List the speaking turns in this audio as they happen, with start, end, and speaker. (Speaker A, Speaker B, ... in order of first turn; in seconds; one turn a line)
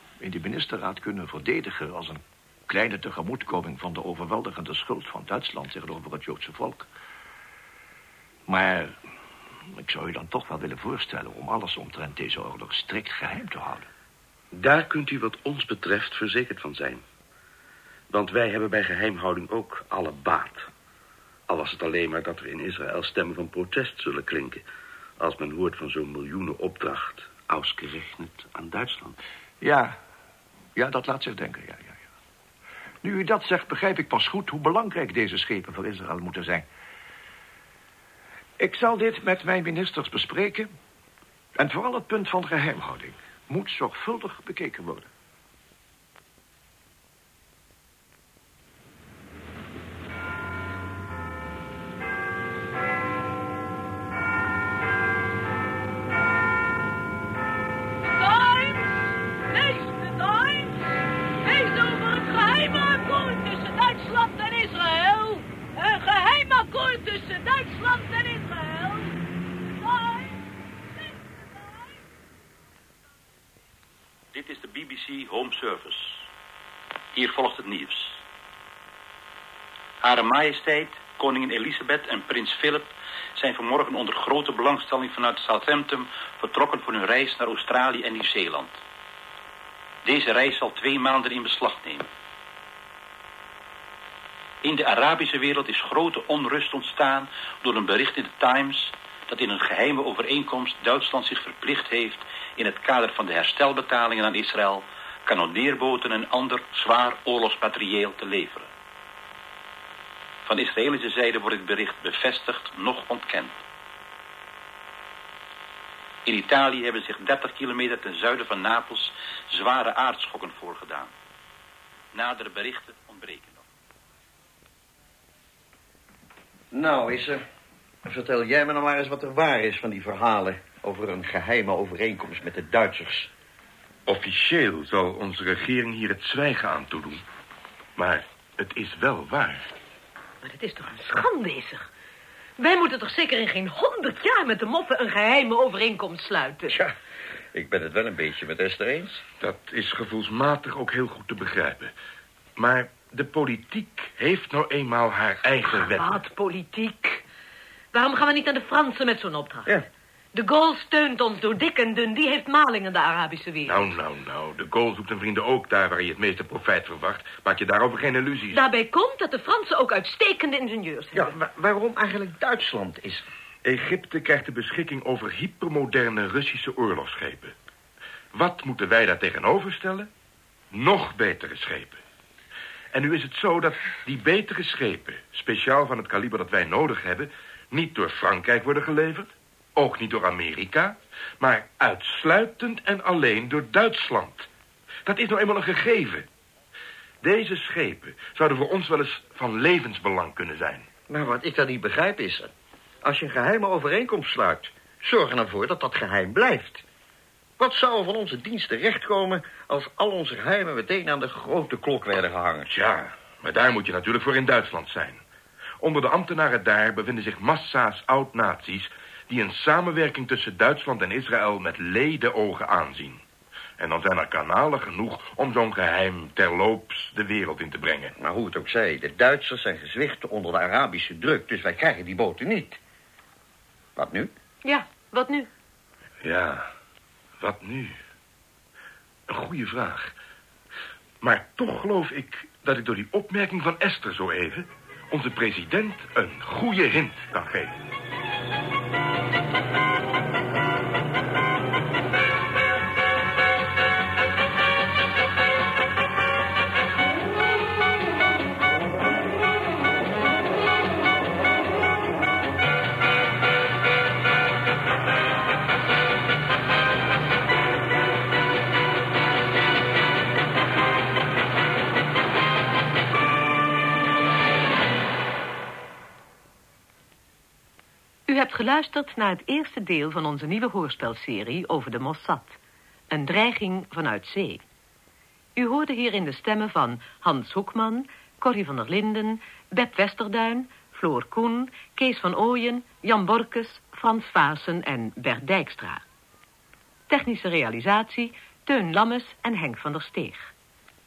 Speaker A: 0.2-6.9
Speaker A: 8.5-8.9
Speaker A: 9.7-13.9
Speaker B: 14.5-17.0
Speaker B: 18.1-20.7
Speaker B: 21.5-24.6
Speaker B: 25.2-29.2
Speaker A: 29.6-30.0
Speaker A: 30.7-32.0
Speaker A: 33.0-36.7
Speaker A: 38.6-40.7
Speaker A: 41.5-45.1
Speaker C: 58.2-58.6
Speaker C: 59.5-60.6
Speaker C: 61.4-68.9
Speaker D: 74.3-76.3
Speaker D: 77.1-78.2
Speaker D: 80.0-88.8
Speaker D: 90.0-92.1
Speaker D: 94.6-108.7
Speaker D: 110.4-113.6
Speaker D: 116.2-121.1
Speaker D: 122.1-123.7
Speaker E: 126.7-127.4
Speaker E: 128.0-133.3
Speaker F: 134.1-137.2
Speaker F: 137.9-139.7
Speaker C: 140.4-141.9
Speaker C: 142.6-146.7
Speaker E: 146.7-146.9
Speaker E: 147.5-149.2
Speaker F: 149.4-151.9
Speaker F: 152.6-156.2
Speaker C: 155.7-157.2
Speaker C: 157.9-159.7
Speaker C: 160.3-163.9
Speaker F: 163.7-168.6
Speaker C: 168.5-171.3
Speaker E: 171.1-173.2
Speaker F: 173.6-177.5
Speaker F: 178.3-180.1
Speaker F: 180.7-182.0
Speaker F: 182.9-194.5
Speaker F: 195.1-196.3
Speaker F: 197.2-200.9
Speaker E: 201.1-206.8
Speaker E: 207.6-212.7
Speaker F: 212.7-215.2
Speaker F: 215.8-223.2
Speaker F: 223.8-228.1
Speaker E: 228.2-232.8
Speaker E: 233.9-234.3
Speaker C: 234.6-235.5
Speaker F: 236.2-236.7
Speaker F: 237.4-238.0
Speaker F: 239.3-240.1
Speaker F: 241.2-247.7
Speaker C: 278.3-282.6
Speaker C: 283.1-284.6
Speaker C: 285.6-296.0
Speaker C: 297.1-300.5